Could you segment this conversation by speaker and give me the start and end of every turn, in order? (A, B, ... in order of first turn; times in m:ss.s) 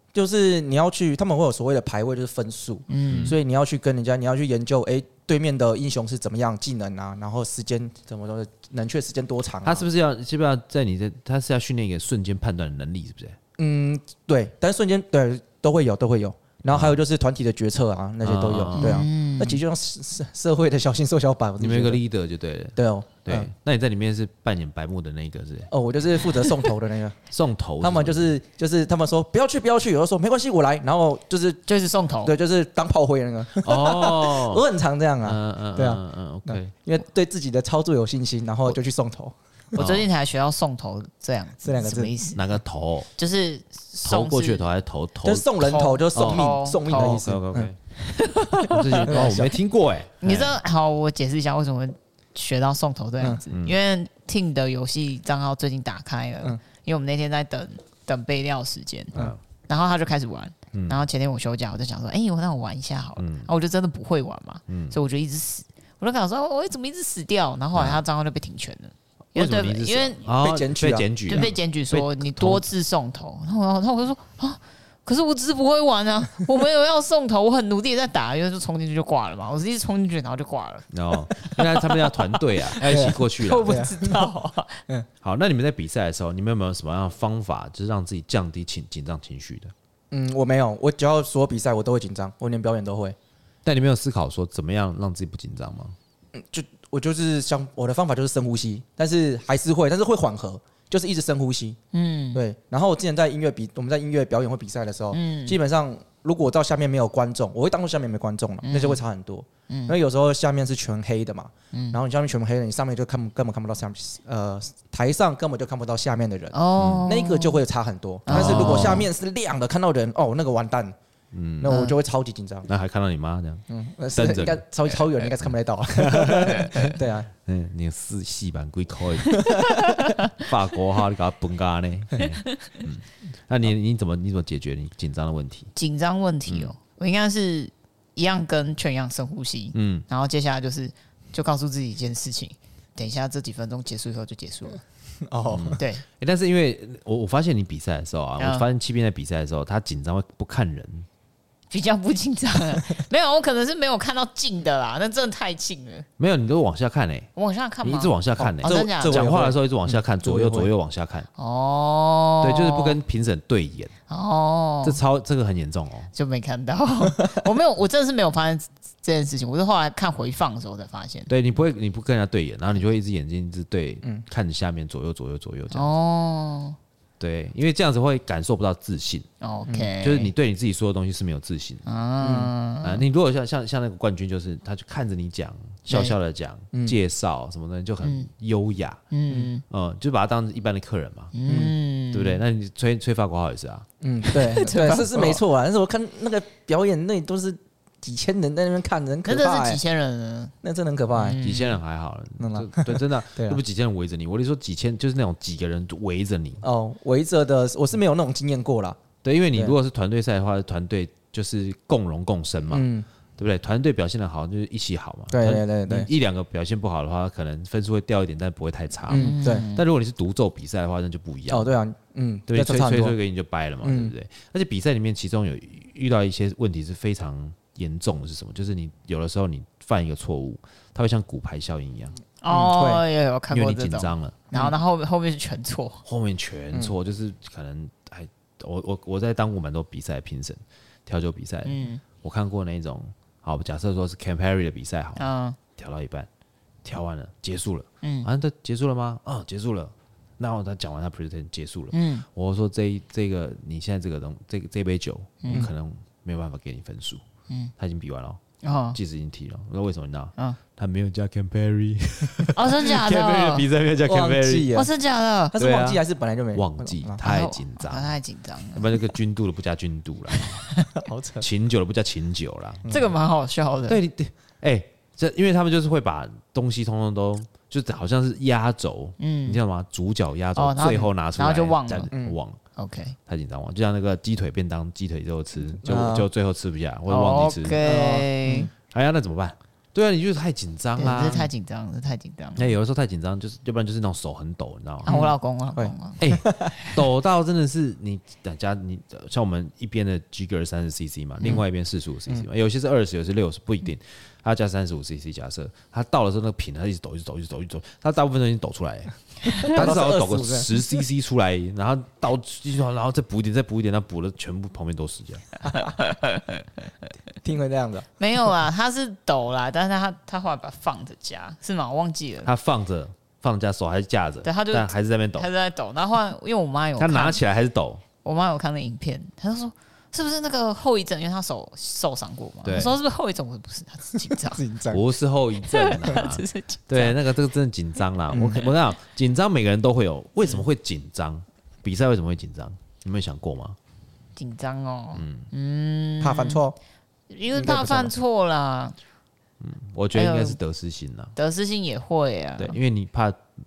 0:00.1-0:09.9 A
0:02.9-0:03.4 B
0:03.1-0:03.4 C
0:09.6-0:13.4 C
0:13.6-0:22.0 A
0:16.7-0:17.0 C
0:18.2-0:19.0 C
0:18.7-0:19.6 B
0:21.6-0:25.7 C
0:22.8-0:23.5 A
0:25.7-0:27.2 A
0:27.3-0:28.3 C
0:27.8-0:31.6 A
0:31.6-0:32.3 B
0:32.2-0:39.8 A
0:33.6-0:34.6 C
0:35.2-0:36.7 C
0:39.8-0:40.1 C
0:39.8-0:42.4 B
0:41.6-0:42.1 A
0:42.3-0:43.1 C
0:43.2-0:44.7 B
0:44.0-0:45.5 C
0:45.2-0:47.7 A
0:45.6-0:47.2 B
0:46.1-0:47.8 C
0:48.0-0:49.3 B
0:48.7-0:50.6 C
0:49.0-0:49.5 A
0:50.2-1:10.2 B
0:53.5-0:53.8 C
0:59.1-0:59.4 C
1:00.7-1:01.0 C
1:03.2-1:03.5 C
1:04.7-1:05.0 C
1:07.7-1:08.0 C
1:09.3-1:12.6 C
1:10.3-1:11.4 A
1:11.3-1:24.8 B
1:20.9-1:23.8 C
1:22.8-1:24.2 A
1:25.2-1:29.7 C
1:30.1-1:33.2 A
1:33.6-1:36.0 C
1:36.3-1:41.8 A
1:41.9-1:42.4 B
1:42.3-2:00.9 A
1:45.1-1:45.6 B
1:48.6-1:49.0 B
1:49.7-1:49.9 B
1:51.7-1:52.0 B
1:56.5-1:57.6 B
1:56.8-1:57.0 C
1:58.2-1:59.1 B
1:58.3-1:59.1 C
2:01.3-2:01.7 C
2:01.6-2:02.7 A
2:01.7-2:01.9 B
2:02.7-2:03.6 C
2:03.7-2:07.3 A
2:04.1-2:15.7 C
2:09.4-2:09.8 A
2:09.8-2:10.2 B
2:15.7-2:24.8 B
2:16.5-2:16.7 C
2:19.7-2:20.0 C
2:25.3-2:25.8 A
2:25.5-2:31.1 C
2:25.8-2:26.0 B
2:28.4-2:28.6 B
2:31.7-2:36.1 B
2:36.2-2:37.3 C
2:37.4-2:39.2 B
2:37.8-2:41.3 C
2:38.4-2:40.7 A
2:41.4-2:43.0 B
2:42.4-2:43.9 C
2:44.1-2:45.0 B
2:44.8-2:46.1 C
2:46.1-2:51.3 B
2:51.3-2:55.9 C
2:55.7-2:56.8 B
2:57.2-2:59.3 C
2:59.4-3:00.3 B
3:00.0-3:01.8 C
3:01.8-3:03.0 B
3:02.2-3:02.5 A
3:02.8-3:09.0 C
3:05.9-3:06.1 B
3:08.0-3:08.3 B
3:09.1-3:09.6 B
3:09.7-3:11.3 C
3:11.3-3:12.4 B
3:11.4-3:11.7 A
3:12.1-3:13.8 C
3:14.0-3:19.8 A
3:14.2-3:15.4 B
3:19.2-3:20.5 B
3:20.6-3:21.4 A
3:21.1-3:21.8 B
3:21.4-3:26.6 C
3:22.4-3:23.6 A
3:26.6-3:29.0 A
3:29.2-3:41.8 C
3:32.7-3:33.0 A
3:35.3-3:36.1 A
3:39.1-3:39.7 A
3:39.1-3:39.8 B
3:41.5-3:43.2 A
3:42.5-3:52.1 C
3:43.8-3:44.1 A
3:52.4-3:56.0 B
3:52.5-3:53.0 A
3:53.5-3:54.4 C
3:56.0-4:05.2 C
4:01.6-4:02.0 B
4:05.2-4:05.6 B
4:05.8-4:06.3 C
4:06.8-4:17.2 C
4:08.0-4:08.3 B
4:11.9-4:12.2 B
4:15.4-4:15.7 B
4:17.8-4:18.4 C
4:18.6-4:19.0 B
4:18.9-4:24.8 C
4:22.5-4:23.7 B
4:24.0-4:24.9 A
4:24.7-4:25.5 B
4:25.5-4:27.2 A
4:25.5-4:26.0 C
4:26.5-4:28.2 C
4:27.2-4:29.0 B
4:28.7-4:30.6 C
4:30.4-4:30.9 B
4:31.0-4:31.5 A
4:31.4-4:32.9 C
4:32.8-4:33.1 A
4:32.9-4:34.0 B
4:33.9-4:42.6 C
4:39.2-4:39.6 B
4:40.6-4:42.1 B
4:42.1-4:42.4 A
4:42.8-4:43.2 B
4:43.3-4:47.8 C
4:45.8-4:46.3 A
4:47.1-4:48.7 B
4:47.8-4:48.7 A
4:48.9-4:51.5 C
4:51.0-4:52.7 B
4:52.6-4:55.2 C
4:55.0-4:56.2 B
4:55.0-4:57.0 A
4:56.2-5:15.4 C
5:09.6-5:10.9 A
5:15.6-5:15.9 A
5:15.7-5:16.6 B
5:17.4-5:18.1 A
5:18.2-5:22.5 B
5:22.4-5:25.5 C
5:24.4-5:27.4 B
5:27.0-5:28.0 C
5:28.2-5:34.6 B
5:32.6-5:33.0 C
5:34.2-5:35.0 A
5:34.9-5:43.8 C
5:35.6-5:37.2 B
5:38.3-5:38.7 A
5:44.4-5:46.6 B
5:45.1-5:45.5 C
5:46.2-5:46.8 A
5:47.3-5:49.0 B
5:47.5-5:48.1 A
5:49.6-5:51.3 C
5:50.1-5:50.6 B
5:51.3-5:52.8 B
5:52.6-5:53.4 C